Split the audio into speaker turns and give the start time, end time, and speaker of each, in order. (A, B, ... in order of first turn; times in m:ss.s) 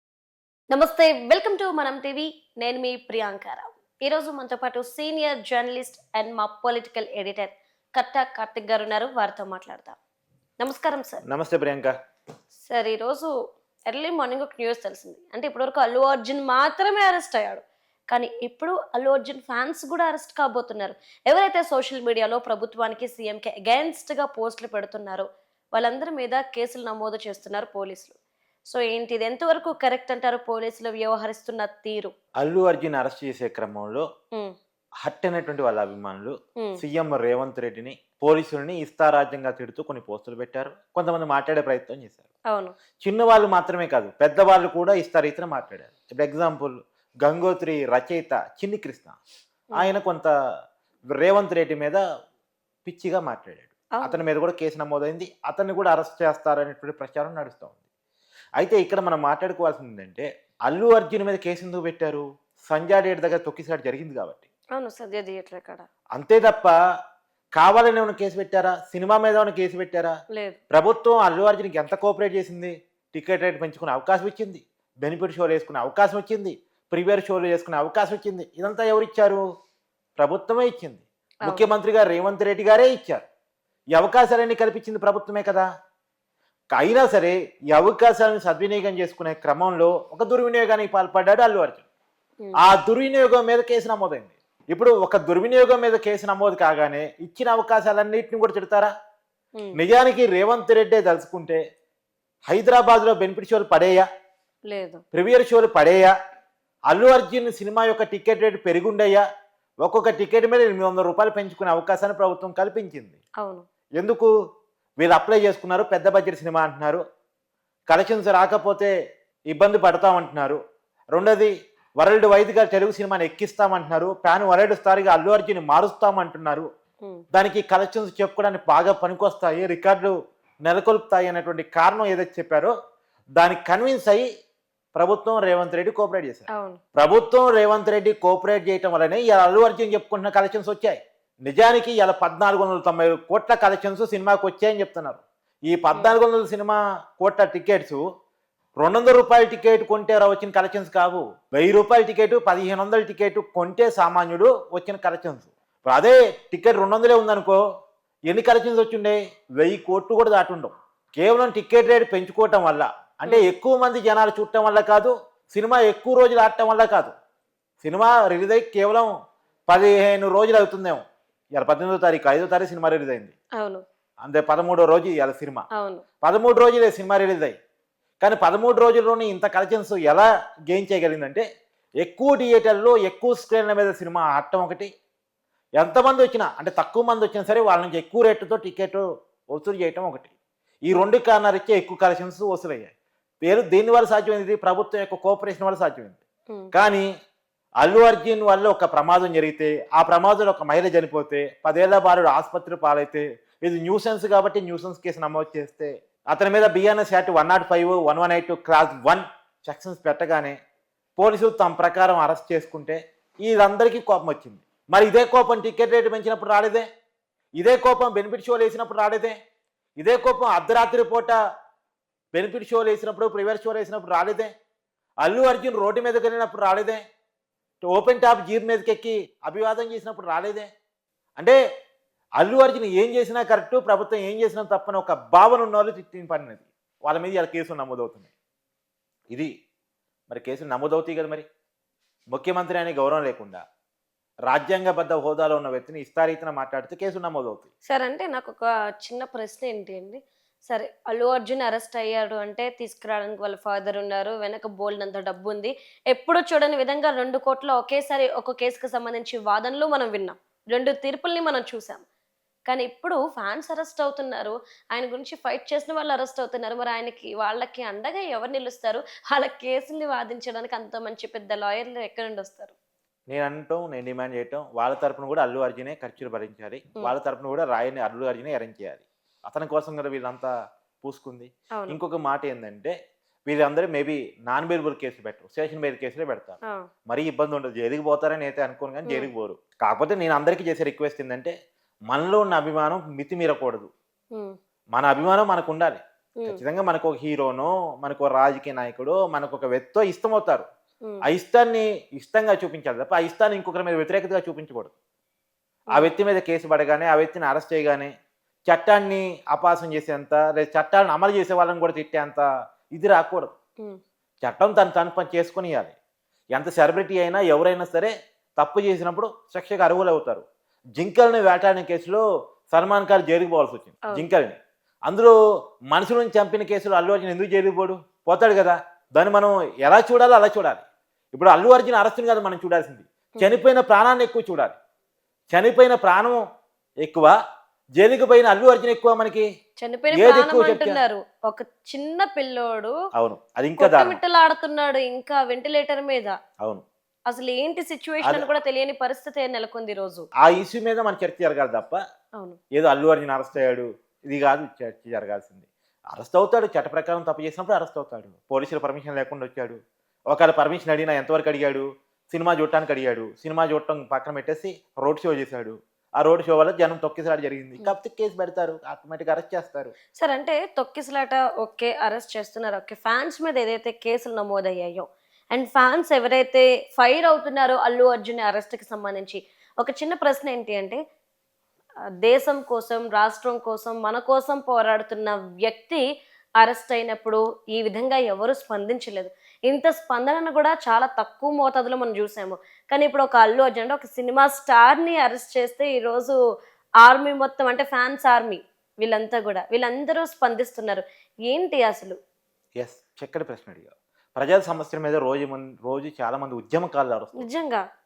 0:00.7-0:10.0 A
0:10.6-0:11.2 A
0:11.3-0:11.9 B
0:12.6-0:13.3 A
0:13.9-0:28.2 A
0:28.7-0:32.1 A
0:32.4-0:34.0 B
0:35.0-0:42.2 B
0:42.5-0:42.8 A
0:43.0-0:49.2 B
0:49.8-0:50.3 B
0:51.1-0:52.0 B
0:52.8-0:57.8 B
0:53.9-0:54.2 A
0:58.6-1:04.4 B
1:04.7-1:05.8 A
1:06.1-1:06.7 B
1:07.6-1:10.1 B
1:10.3-1:10.6 A
1:10.7-1:19.4 B
1:20.2-1:23.2 B
1:21.4-1:21.7 A
1:23.9-1:25.6 B
1:26.7-1:31.8 B
1:32.4-1:32.7 A
1:32.6-1:38.9 B
1:39.7-1:41.6 B
1:42.5-1:44.0 B
1:44.7-1:45.0 A
1:45.1-1:46.1 B
1:46.9-1:49.2 B
1:49.8-1:53.2 B
1:54.0-1:54.3 B
1:55.0-1:57.0 B
1:57.9-1:58.9 B
1:59.5-2:00.6 B
2:01.1-2:06.7 B
2:07.3-2:10.1 B
2:10.6-2:12.7 B
2:13.4-2:14.3 B
2:14.9-2:28.0 B
2:16.5-2:16.8 A
2:25.9-2:26.2 A
2:28.8-2:37.6 B
2:38.3-2:47.1 B
2:43.2-2:43.5 A
2:47.8-2:49.1 B
2:49.7-2:51.0 B
2:51.6-2:53.3 B
2:54.2-2:55.6 B
2:55.7-2:56.0 A
2:56.2-2:57.5 B
2:58.2-3:01.4 B
3:02.0-3:04.9 B
3:05.8-3:10.3 B
3:10.9-3:12.9 B
3:13.4-3:16.2 B
3:16.7-3:17.1 B
3:17.8-3:30.5 B
3:31.2-3:36.8 B
3:37.6-3:39.3 B
3:40.0-3:41.4 B
3:42.3-3:44.5 B
3:45.2-3:47.0 B
3:47.8-3:50.7 B
3:52.4-3:58.3 B
4:00.3-4:01.4 B
4:02.3-4:03.6 B
4:04.5-4:07.7 B
4:07.9-4:22.0 A
4:22.7-4:32.7 A
4:33.3-4:40.5 B
4:41.0-4:42.9 B
4:41.7-4:42.0 A
4:43.5-4:46.6 B
4:47.1-4:51.5 B
4:49.0-4:49.3 A
4:52.1-4:53.9 B
4:54.9-5:00.6 B
5:01.2-5:04.9 B
5:05.9-5:08.1 B
5:08.7-5:13.5 B
5:14.4-5:15.9 B
5:16.5-5:20.4 B
5:21.0-5:24.6 B
5:25.1-5:25.3 B
5:25.9-5:34.8 B
5:35.5-5:36.4 B
5:37.0-5:37.3 B
5:38.0-5:39.5 B
5:39.8-5:42.9 A
5:40.1-5:41.0 B
5:43.2-5:44.2 B
5:43.8-5:46.3 A
5:47.3-5:50.2 A
5:48.2-5:48.5 B
5:50.4-5:52.0 B
5:52.7-5:59.8 B
6:00.3-6:09.9 B
6:10.2-6:21.0 A
6:22.2-6:26.0 A
6:26.6-6:36.3 A
6:37.0-6:42.2 A
6:42.8-6:47.5 B
6:47.4-6:47.8 A